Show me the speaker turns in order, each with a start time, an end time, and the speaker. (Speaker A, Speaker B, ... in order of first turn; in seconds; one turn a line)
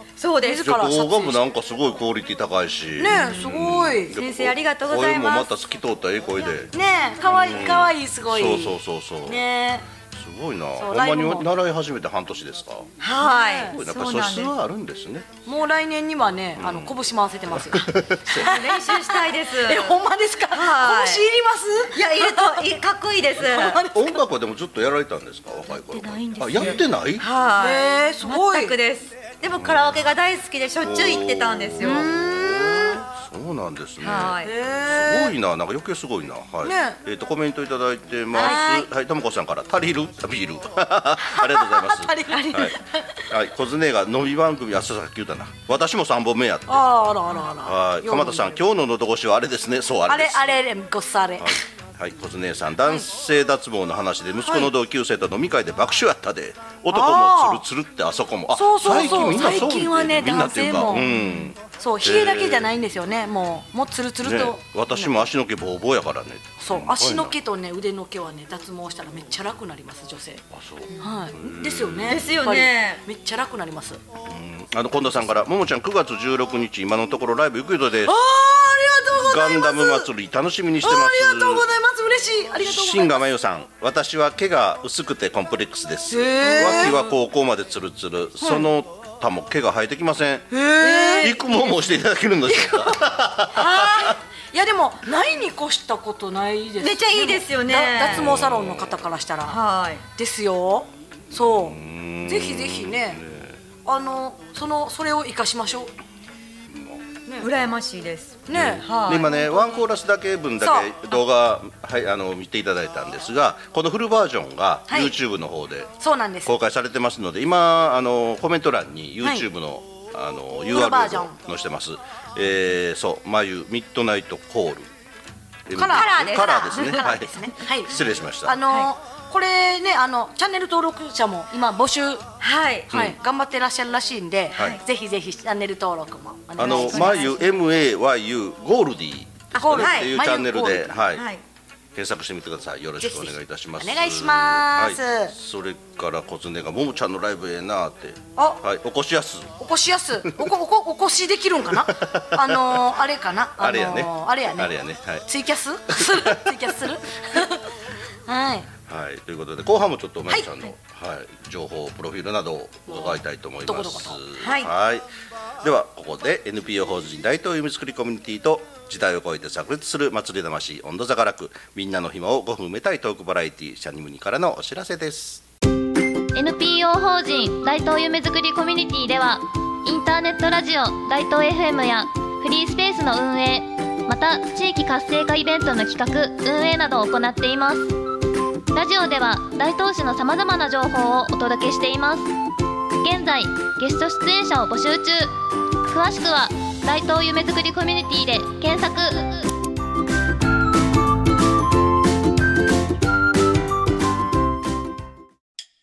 Speaker A: 0.2-0.7
Speaker B: 0.4-1.4
Speaker C: 0.5-6.7
Speaker B: 3.0-4.2
Speaker A: 4.1-5.5
Speaker B: 6.7-9.9
Speaker C: 7.2-9.4
Speaker C: 10.1-12.9
Speaker B: 10.8-11.5
Speaker A: 13.0-14.5
Speaker B: 13.2-13.8
Speaker C: 13.7-15.3
Speaker B: 15.5-22.7
Speaker C: 16.6-18.6
Speaker A: 18.3-21.2
Speaker A: 21.9-23.8
Speaker B: 23.4-24.2
Speaker C: 23.9-27.3
Speaker A: 25.7-32.1
Speaker B: 27.6-28.8
Speaker C: 29.6-30.1
Speaker C: 30.8-50.6
Speaker B: 31.8-33.0
Speaker A: 34.0-34.5
Speaker B: 34.4-35.4
Speaker B: 36.6-37.0
Speaker B: 38.3-38.9
Speaker B: 41.2-43.3
Speaker B: 46.7-48.6
Speaker B: 50.1-51.6
Speaker C: 51.4-62.7
Speaker B: 54.5-54.7
Speaker B: 56.9-57.6
Speaker B: 58.5-65.3
Speaker C: 64.2-67.4
Speaker B: 66.6-70.5
Speaker C: 70.5-72.3
Speaker B: 71.0-74.0
Speaker A: 72.1-73.0
Speaker C: 74.2-78.2
Speaker B: 78.0-80.1
Speaker C: 79.1-81.7
Speaker B: 80.8-83.3
Speaker C: 82.6-94.1
Speaker B: 86.1-87.0
Speaker B: 88.4-88.7
Speaker B: 90.5-91.4
Speaker B: 92.5-93.0
Speaker B: 93.5-99.6
Speaker A: 93.8-94.1
Speaker A: 96.8-98.3
Speaker C: 98.0-99.0
Speaker A: 99.5-100.0
Speaker B: 100.2-103.2
Speaker C: 101.3-103.6
Speaker B: 103.8-105.9
Speaker C: 106.7-107.0
Speaker A: 107.4-109.4
Speaker B: 108.5-109.8
Speaker C: 108.5-115.9
Speaker B: 110.6-111.1
Speaker B: 114.9-115.2
Speaker B: 116.0-116.5
Speaker C: 116.5-124.9
Speaker B: 120.7-121.4
Speaker C: 125.7-128.6
Speaker B: 125.7-132.2
Speaker A: 125.9-127.2
Speaker A: 132.4-132.9
Speaker B: 132.9-137.4
Speaker C: 132.9-133.2
Speaker C: 134.5-134.8
Speaker A: 134.6-134.8
Speaker C: 136.6-141.3
Speaker A: 136.6-137.4
Speaker B: 139.5-141.0
Speaker A: 139.8-140.1
Speaker A: 141.1-141.4
Speaker C: 141.9-149.6
Speaker B: 143.0-145.3
Speaker B: 148.4-148.6
Speaker B: 149.6-154.7
Speaker C: 151.8-152.8
Speaker C: 153.6-155.3
Speaker B: 155.3-157.6
Speaker C: 155.9-156.5
Speaker B: 158.3-158.7
Speaker C: 158.9-165.1
Speaker B: 162.9-164.2
Speaker A: 164.4-164.7
Speaker C: 165.6-175.4
Speaker D: 176.3-187.9
Speaker D: 188.7-192.3
Speaker D: 193.0-195.3
Speaker D: 195.9-199.5